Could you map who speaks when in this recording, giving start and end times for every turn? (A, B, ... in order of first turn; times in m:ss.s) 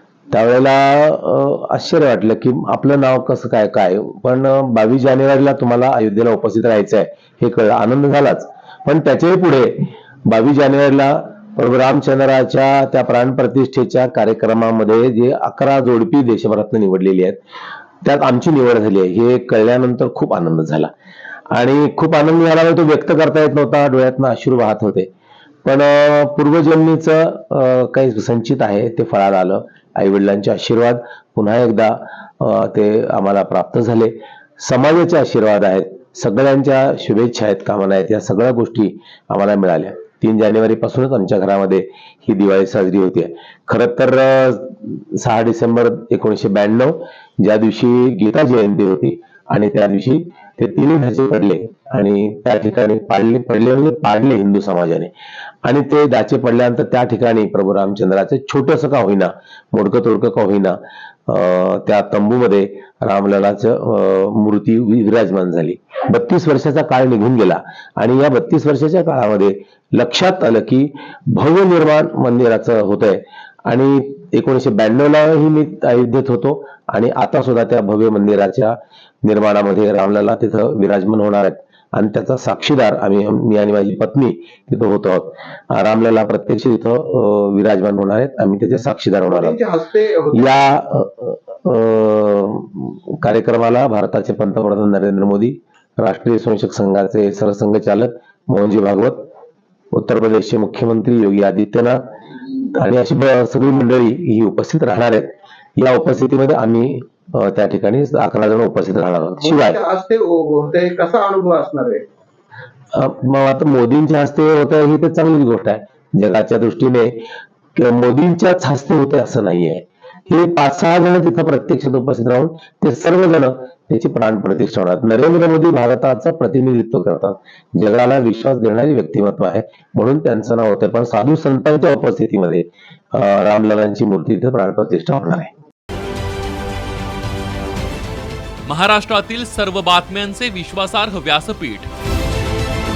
0:00.3-0:17.4 A
0:18.0-0:20.9 A
0:21.5-0:25.1 A
0:25.6-0:55.1 A
0:55.6-1:29.6 A
1:29.3-1:30.4 B
1:30.3-1:39.2 A
1:39.9-1:42.0 A
1:42.6-1:49.8 A
1:49.4-1:52.0 B
1:52.9-1:57.2 A
1:57.7-2:15.5 A
2:18.6-2:21.9 C